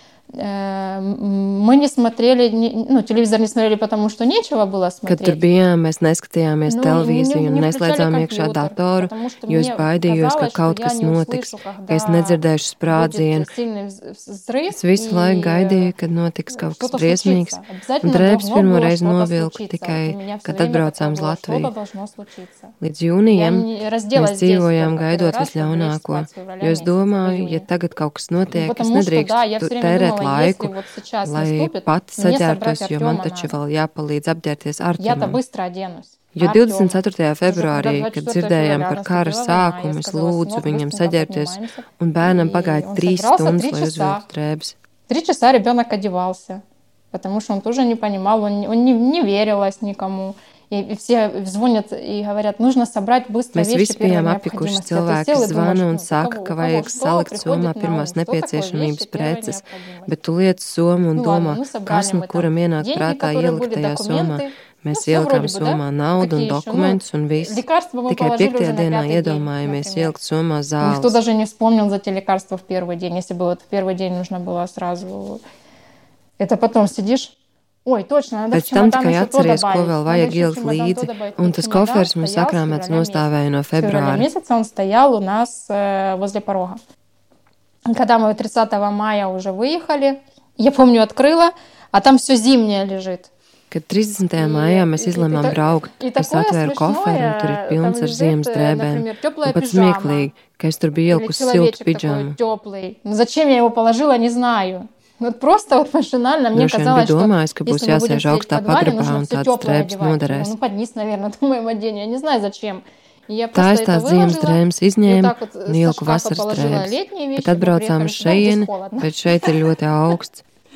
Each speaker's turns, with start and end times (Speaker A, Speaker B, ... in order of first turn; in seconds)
Speaker A: 0.3-5.4, 6.7-15.9, 16.5-22.7, 23.3-27.7, 28.5-33.5, 35.0-44.2, 45.1-60.1, 61.2-70.2, 70.8-75.4, 76.4-86.8, 87.9-93.3, 94.3-100.3, 101.1-119.5
Speaker B: 5.1-13.5, 14.7-21.7, 22.8-30.7, 31.2-35.4, 36.4-44.8, 53.5-71.2, 78.5-84.3, 93.7-102.4, 106.5-110.5, 113.5-120.4